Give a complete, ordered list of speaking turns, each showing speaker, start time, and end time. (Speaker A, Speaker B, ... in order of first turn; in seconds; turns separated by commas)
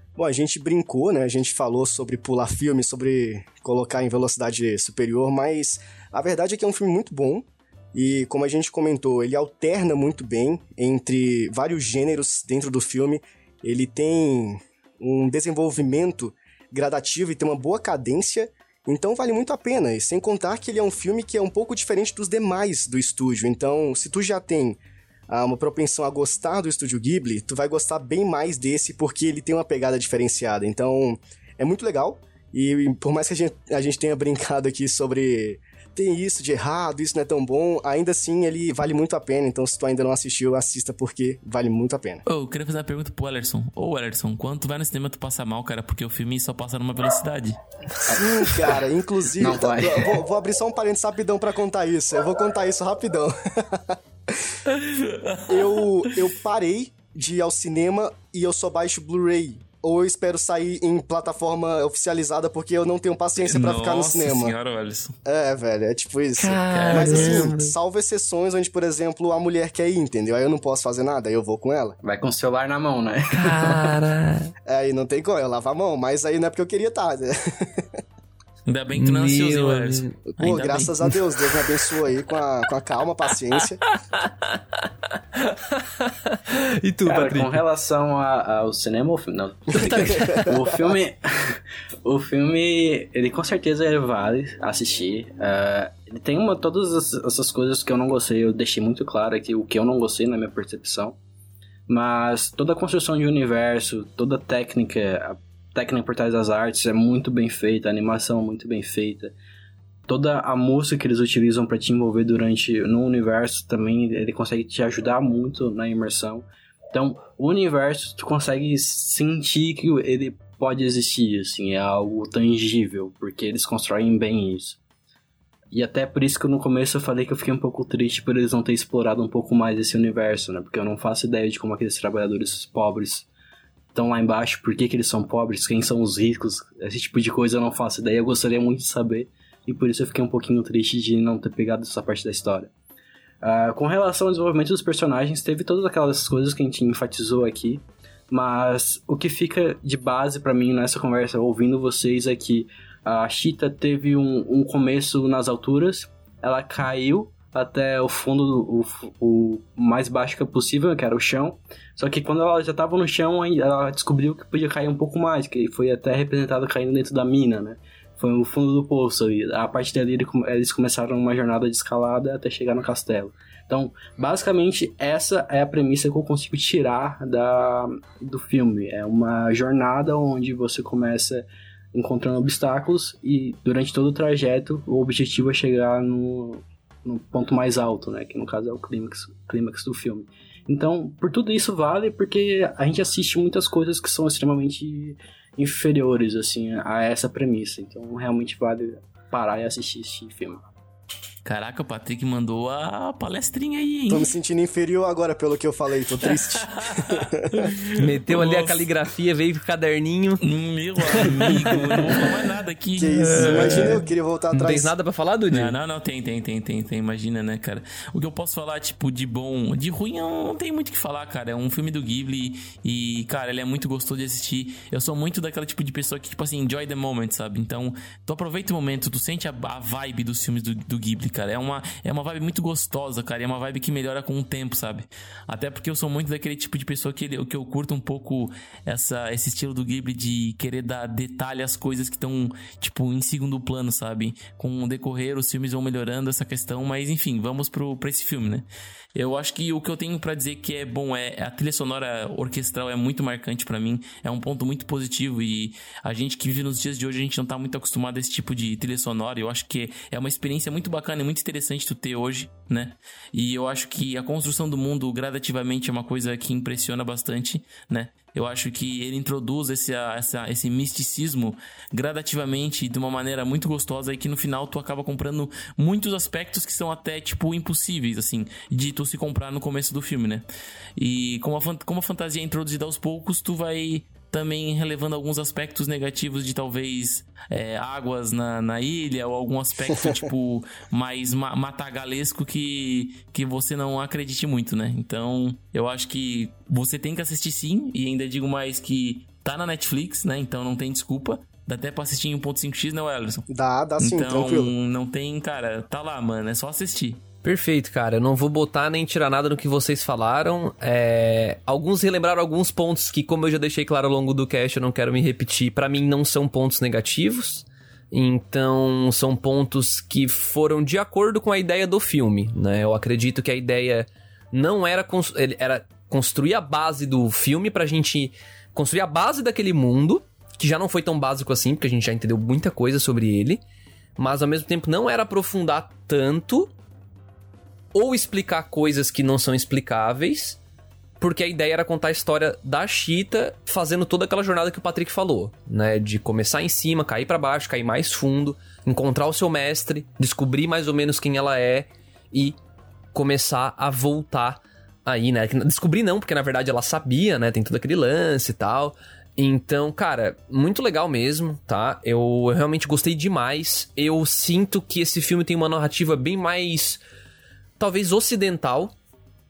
Speaker A: 0.2-24.8, Speaker A: 25.3-42.2, Speaker B: 42.2-47.6, Speaker A: 48.1-54.5, Speaker C: 49.4-50.2, Speaker B: 54.7-55.6, Speaker A: 55.5-64.5, Speaker B: 63.4-65.1, Speaker A: 65.2-71.9, Speaker D: 66.4-67.7, Speaker B: 66.7-67.5, Speaker C: 72.0-74.0, Speaker D: 73.3-74.5, Speaker A: 74.7-77.9, Speaker B: 78.7-81.0, Speaker D: 78.9-80.2, Speaker A: 80.4-83.8, Speaker D: 83.9-87.6, Speaker C: 87.0-101.2, Speaker D: 89.7-90.5, Speaker A: 90.1-90.5, Speaker C: 101.9-109.3, Speaker C: 110.1-124.8, Speaker C: 125.7-133.3, Speaker C: 133.9-142.7, Speaker C: 143.4-200.6, Speaker B: 201.4-204.3, Speaker A: 204.1-207.7, Speaker B: 206.3-208.8, Speaker D: 207.9-210.4, Speaker B: 210.4-214.0, Speaker D: 211.1-212.2, Speaker A: 213.0-214.9, Speaker D: 213.1-215.7, Speaker B: 215.5-280.4, Speaker B: 281.0-303.4, Speaker A: 303.5-304.7, Speaker B: 304.0-307.2, Speaker D: 307.4-333.6, Speaker D: 334.2-336.7, Speaker D: 337.9-340.6, Speaker D: 341.2-352.6, Speaker D: 353.1-367.0, Speaker D: 367.8-368.9